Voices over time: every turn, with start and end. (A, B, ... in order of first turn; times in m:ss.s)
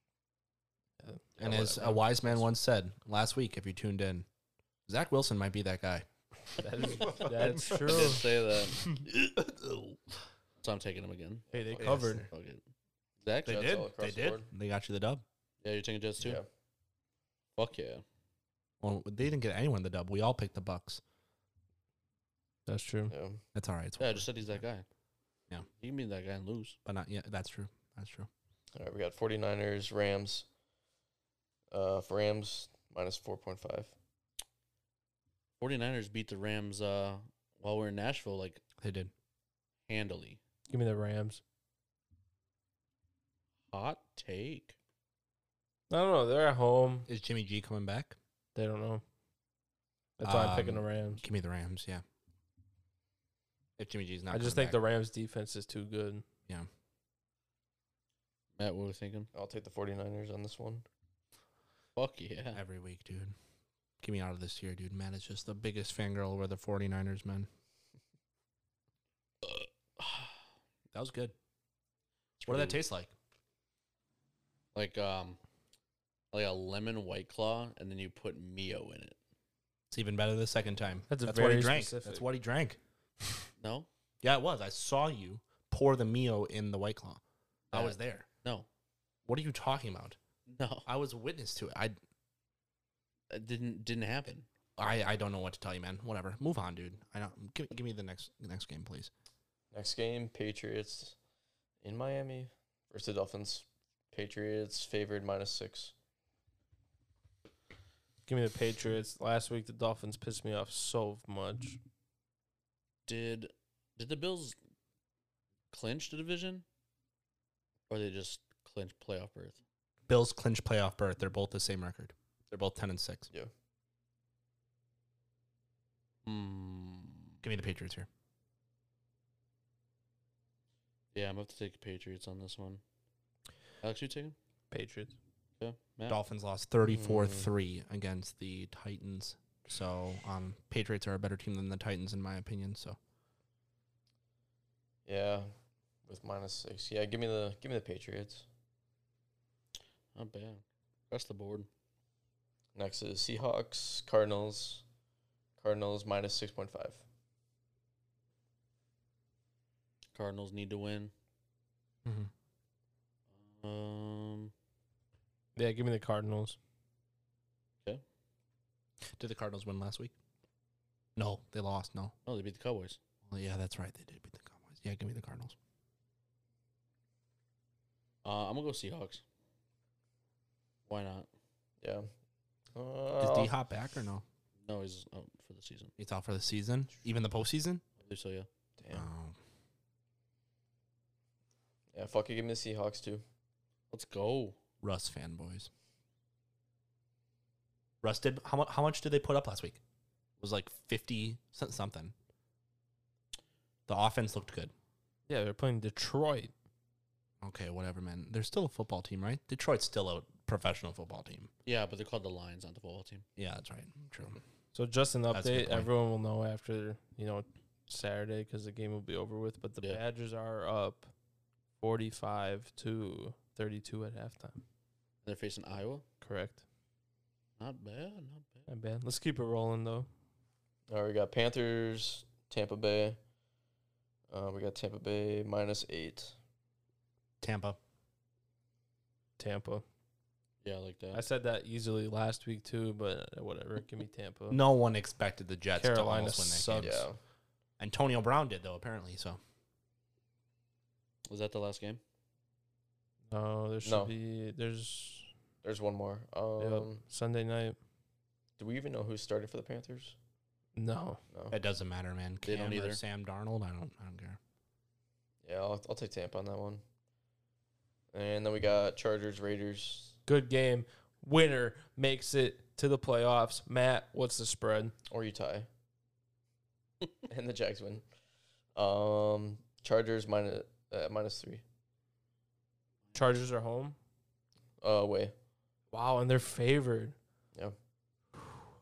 0:01.0-0:02.5 A
0:01.4-0:04.3 B
0:04.9-0:06.0 B
0:06.6-0:08.2 A
0:07.0-0:08.2 B
0:07.1-0:08.9 C
0:08.8-0:10.0 B
0:10.6-0:11.4 C
0:11.5-0:12.0 D
0:11.5-0:12.3 A
0:11.8-0:12.3 B
0:12.0-0:12.6 C
0:13.2-0:13.7 C
0:13.4-0:14.5 D
0:13.4-0:15.2 B
0:15.6-0:16.4 C
0:16.2-0:16.5 D
0:17.6-0:18.0 C
0:18.8-0:21.0 B
0:22.6-0:23.1 A
0:23.1-0:23.4 D
0:23.5-0:24.3 B
0:24.0-0:24.8 C
0:25.8-0:26.8 C
0:26.8-0:28.3 B
0:28.7-0:30.5 D
0:31.7-0:33.9 D
0:35.6-0:38.6 C
0:38.8-0:39.1 B
0:39.9-0:40.4 C
0:40.7-0:41.4 A
0:43.7-0:44.8 C
0:45.9-0:47.1 A
0:47.1-0:48.2 B
0:48.5-0:49.0 A
0:50.2-0:51.2 A
0:50.2-0:52.0 B
0:53.8-0:54.8 B
0:54.3-0:56.2 A
0:58.6-0:59.3 C
0:59.3-1:00.8 D
1:02.0-1:02.6 C
1:02.5-1:03.3 B
1:04.0-1:07.5 B
1:09.4-1:10.4 C
1:10.9-1:11.3 B
1:12.4-1:12.8 C
1:12.5-1:13.1 B
1:14.7-1:15.4 C
1:16.3-1:19.2 C
1:19.9-1:22.8 B
1:21.1-1:22.2 A
1:23.6-1:23.9 C
1:24.2-1:27.2 B
1:27.7-1:28.3 B
1:27.7-1:28.7 C
1:29.2-1:30.2 B
1:30.5-1:30.9 C
1:30.8-1:32.0 B
1:33.3-1:34.5 C
1:34.8-1:39.1 B
1:39.7-1:41.2 D
1:41.8-1:45.9 D
1:48.3-1:51.8 A
1:53.1-1:54.6 C
1:55.7-1:56.6 C
1:57.9-1:59.6 C
2:00.1-2:03.3 B
2:06.2-2:07.4 C
2:07.4-2:08.1 B
2:11.1-2:12.8 C
2:13.8-2:14.3 C
2:14.7-2:15.2 A
2:15.6-2:16.2 C
2:16.1-2:23.0 B
2:16.8-2:17.5 D
2:25.0-2:25.5 D
2:26.0-2:28.4 D
2:30.1-2:31.7 C
2:32.7-2:34.8 D
2:35.6-2:37.0 D
2:40.1-2:41.1 C
2:42.0-2:42.3 B
2:43.5-2:44.5 C
2:45.6-2:46.6 A
2:49.2-2:50.1 B
2:51.2-2:52.1 B
2:52.2-2:53.0 C
2:53.3-2:55.6 B
2:58.2-2:59.2 C
3:00.9-3:01.3 C
3:01.8-3:02.1 D
3:02.7-3:03.5 D
3:03.2-3:04.2 B
3:04.6-3:05.9 C
3:06.0-3:07.8 B
3:08.0-3:08.5 C
3:08.8-3:09.1 D
3:08.9-3:09.4 B
3:11.9-3:13.2 D
3:13.9-3:14.6 C
3:14.8-3:15.7 B
3:18.0-3:19.8 B
3:20.4-3:22.1 B
3:23.9-3:24.7 B
3:25.3-3:26.5 A
3:27.4-3:31.5 B
3:31.6-3:33.2 C
3:33.4-3:34.4 B
3:34.7-3:41.1 A
3:35.3-3:35.9 B
3:41.8-3:44.6 A
3:45.2-3:46.0 C
3:46.2-3:46.6 A
3:47.6-3:48.7 C
3:48.7-3:50.1 A
3:50.9-3:53.2 D
3:54.3-3:56.3 D
3:57.4-3:57.8 B
3:59.4-3:59.8 A
4:00.6-4:01.2 C
4:01.1-4:04.6 A
4:04.5-4:07.1 B
4:05.8-4:07.0 A
4:06.8-4:07.2 D
4:07.8-4:09.4 B
4:11.3-4:12.0 C
4:13.3-4:15.3 A
4:13.8-4:14.1 D
4:15.6-4:17.0 D
4:16.6-4:17.8 A
4:18.6-4:20.2 D
4:20.8-4:21.2 A
4:21.3-4:21.6 D
4:21.5-4:24.4 B
4:22.4-4:23.0 C
4:25.4-4:26.8 D
4:28.1-4:30.2 D
4:30.2-4:34.9 A
4:35.1-4:35.7 D
4:37.2-4:38.0 D
4:38.7-4:41.6 D
4:43.1-4:44.0 A
4:44.8-4:45.3 D
4:45.9-4:47.2 A